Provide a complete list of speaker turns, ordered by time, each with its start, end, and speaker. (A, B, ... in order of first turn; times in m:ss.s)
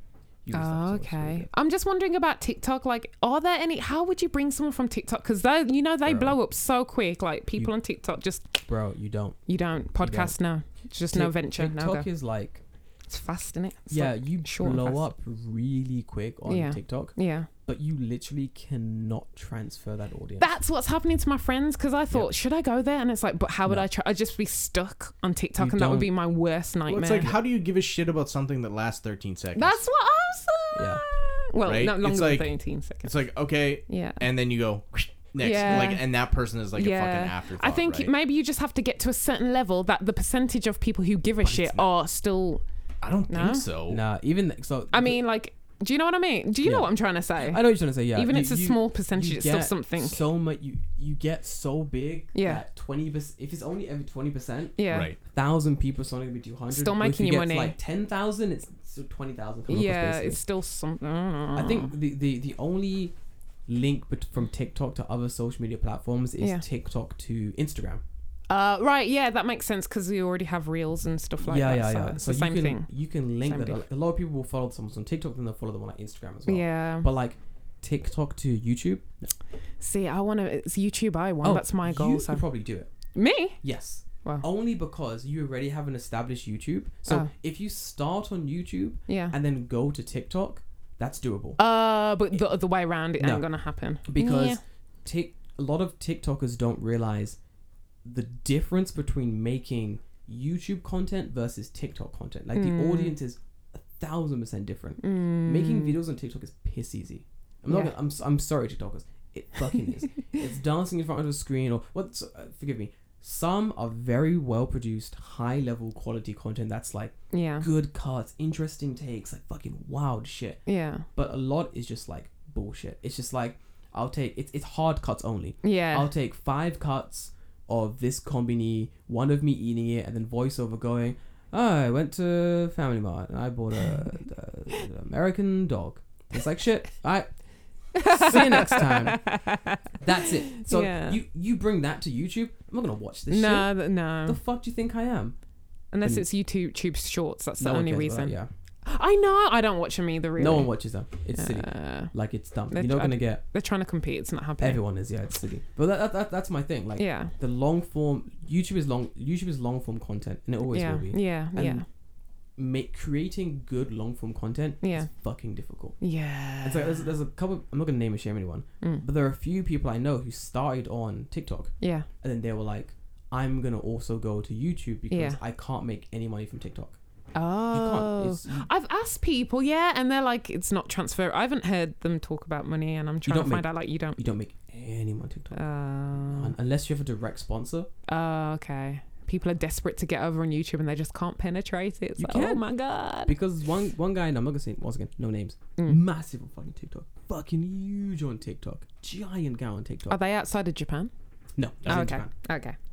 0:00.4-0:01.5 A
0:00.5-0:08.5 B
0:06.0-0:06.4 A
0:08.6-0:09.4 A
0:09.5-0:12.1 B
0:10.0-0:10.4 A
0:11.1-0:12.6 A
0:13.1-0:15.1 B
0:13.9-0:20.5 A
0:16.4-0:17.5 B
0:20.4-0:27.4 B
0:25.6-0:26.1 A
0:26.9-0:29.8 C
0:29.6-0:33.2 B
0:30.7-0:31.0 A
0:31.6-0:32.5 C
0:33.0-0:38.1 C
0:33.9-0:34.2 B
0:35.4-0:36.0 B
0:36.7-0:42.6 B
0:41.4-0:41.8 C
0:43.0-0:44.0 C
0:43.3-0:43.7 B
0:43.9-0:45.2 A
0:44.9-0:50.2 B
0:46.6-1:00.4 A
0:52.3-0:52.6 B
0:54.8-0:55.1 B
0:54.9-0:55.2 C
0:56.7-0:57.7 B
0:59.7-1:01.9 B
1:01.5-1:03.2 A
1:03.7-1:08.0 A
1:06.4-1:06.6 B
1:08.5-1:13.8 B
1:11.4-1:19.3 A
1:16.5-1:17.1 B
1:19.8-1:22.4 B
1:21.4-1:22.9 A
1:23.1-1:23.6 B
1:23.6-1:31.6 A
1:29.1-1:29.4 B
1:31.6-1:34.6 B
1:33.2-1:33.5 A
1:34.0-1:37.4 A
1:38.0-2:00.6 A
1:42.5-1:43.2 B
1:45.0-1:46.0 B
1:47.7-1:47.9 B
1:57.3-1:57.7 B
2:00.6-2:01.0 B
2:01.1-2:17.3 A
2:05.6-2:06.1 B
2:17.9-2:21.2 B
2:18.0-2:19.2 A
2:20.0-2:25.3 A
2:23.3-2:24.4 B
2:25.9-2:30.8 B
2:26.0-2:26.2 A
2:27.6-2:28.5 A
2:30.4-2:33.4 A
2:31.4-2:32.1 B
2:32.7-2:34.8 B
2:34.6-2:41.8 A
2:37.0-2:37.3 B
2:40.7-2:41.8 B
2:42.6-2:46.0 A
2:44.8-2:45.1 B
2:46.0-2:47.1 B
2:46.6-2:57.0 A
2:51.8-2:52.1 B
2:55.1-2:55.4 B
2:57.3-3:04.2 B
2:57.7-2:58.7 A
3:03.2-3:05.6 A
3:05.5-3:06.5 B
3:06.3-3:07.9 A
3:08.1-3:13.3 B
3:12.2-3:12.6 A
3:13.2-3:20.2 A
3:20.1-3:21.1 B
3:21.6-3:22.3 A
3:21.8-3:22.7 B